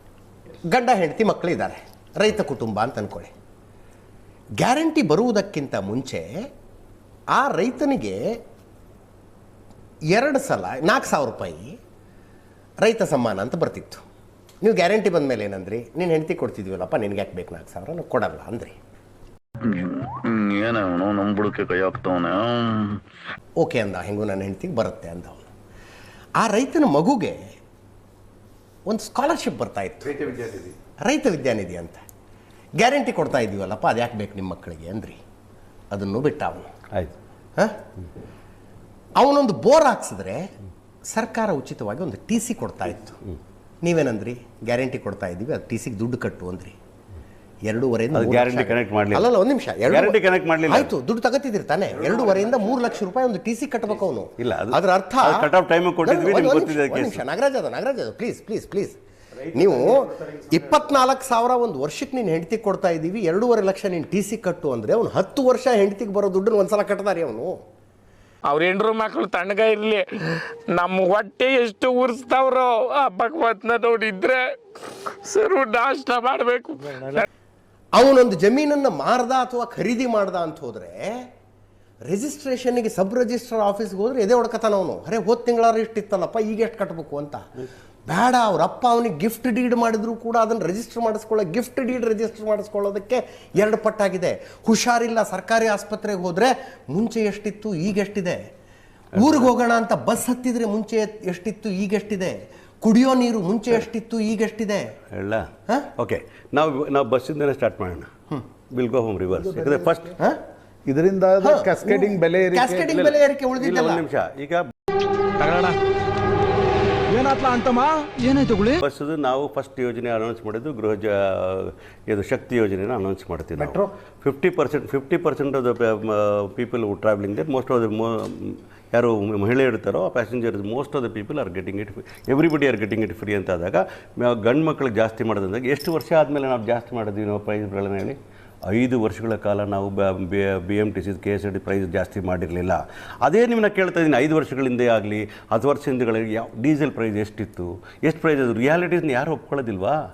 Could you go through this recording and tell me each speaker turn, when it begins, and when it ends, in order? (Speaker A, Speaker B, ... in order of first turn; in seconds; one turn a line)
Speaker A: 0.7-3.3
Speaker A: 4.6-6.3
Speaker A: 7.3-8.2
Speaker A: 10.1-11.7
Speaker A: 12.8-14.0
Speaker A: 14.6-18.8
Speaker B: 19.6-23.0
Speaker A: 23.6-25.5
Speaker A: 26.4-27.4
Speaker A: 28.9-32.0
Speaker A: 32.8-35.2
Speaker A: 35.9-36.7
Speaker A: 39.2-40.4
Speaker A: 41.1-43.2
Speaker A: 43.8-46.8
Speaker A: 47.7-55.5
Speaker C: 48.1-49.3
Speaker C: 49.9-50.9
Speaker C: 54.4-57.2
Speaker A: 56.0-59.0
Speaker A: 59.5-67.6
Speaker D: 68.5-77.3
Speaker A: 77.9-81.2
Speaker A: 82.1-87.5
Speaker A: 88.1-98.4
Speaker A: 99.2-104.9
Speaker C: 99.2-99.5
Speaker C: 105.1-108.1
Speaker C: 108.7-110.1
Speaker E: 109.3-110.1
Speaker E: 110.8-113.2
Speaker A: 111.4-114.0
Speaker C: 113.6-114.6
Speaker F: 115.4-115.7
Speaker F: 117.1-118.7
Speaker C: 118.8-138.2
Speaker C: 138.7-150.0